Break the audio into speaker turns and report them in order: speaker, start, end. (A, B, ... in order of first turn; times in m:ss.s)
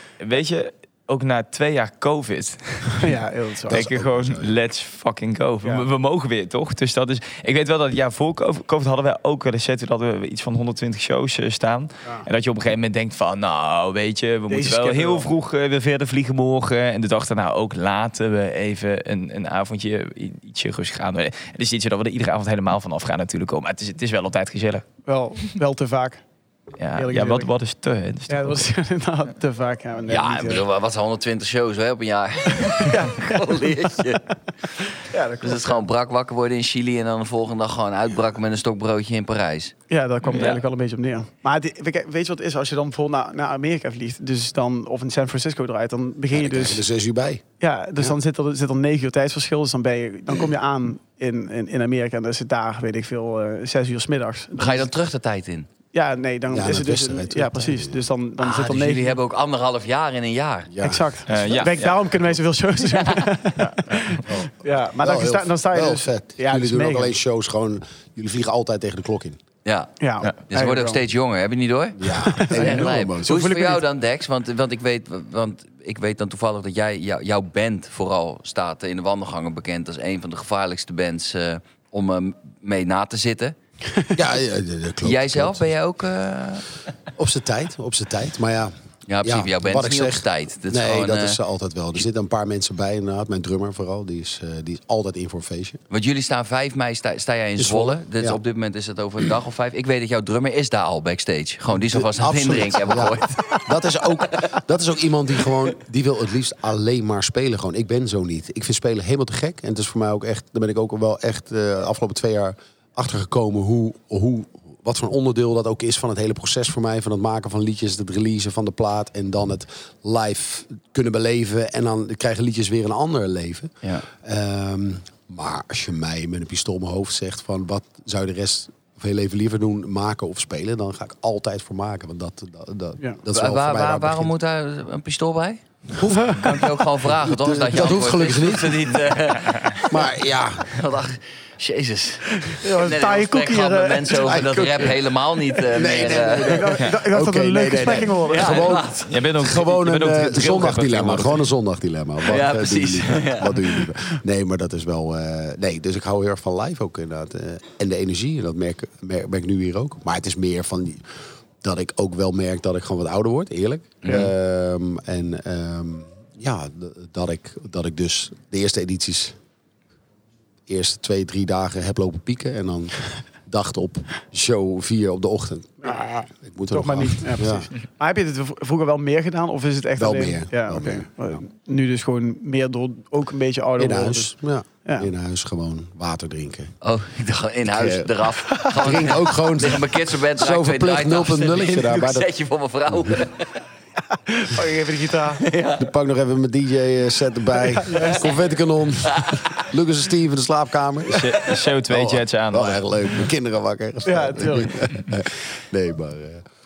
0:00.2-0:24.8 A
0:02.9-0:03.8 B
0:03.7-0:04.5 C
0:14.5-0:15.3 B
0:25.1-0:26.2 B
0:26.8-0:28.6 A
0:27.0-0:27.5 B
0:28.3-0:30.6 B
0:30.1-0:34.9 D
0:32.6-0:33.9 B
0:35.0-0:35.8 B
0:35.4-0:39.7 D
0:39.9-0:46.8 B
0:40.2-0:40.6 A
0:46.3-0:47.4 C
0:47.6-0:54.9 B
0:54.6-0:55.7 D
0:55.9-0:59.2 B
0:56.5-0:58.0 C
0:58.4-1:00.7 D
1:00.7-1:01.0 C
1:00.8-1:07.1 B
1:01.3-1:01.9 A
1:02.8-1:03.3 D
1:03.6-1:04.2 A
1:04.2-1:09.4 C
1:09.6-1:09.9 D
1:10.0-1:11.0 B
1:10.5-1:23.6 D
1:12.0-1:13.4 C
1:12.3-1:13.8 B
1:24.1-1:25.6 C
1:25.0-1:26.7 D
1:27.2-1:35.8 C
1:29.1-1:31.4 D
1:35.9-1:43.7 D
1:37.6-1:38.4 C
1:41.7-2:14.3 C
2:13.3-2:15.6 D
2:16.0-2:19.0 C
2:16.2-2:20.0 D
2:19.4-2:19.8 A
2:19.8-2:20.8 C
2:20.7-2:26.7 D
2:22.5-2:25.0 B
2:24.2-2:25.0 C
2:25.7-2:49.4 C
2:25.9-2:28.9 B
2:28.2-2:29.1 D
2:29.1-2:31.4 A
2:32.2-2:33.7 D
2:44.0-2:44.3 D
2:50.7-2:57.7 C
2:55.8-3:04.3 B
3:00.0-3:01.4 C
3:03.8-3:06.7 C
3:06.8-3:13.6 D
3:07.7-3:12.3 C
3:08.5-3:09.1 B
3:12.9-3:13.2 C
3:14.1-3:15.4 B
3:15.3-3:15.9 D
3:15.8-3:26.4 C
3:17.7-3:18.3 B
3:19.0-3:19.5 D
3:21.1-3:22.8 A
3:24.0-3:24.8 B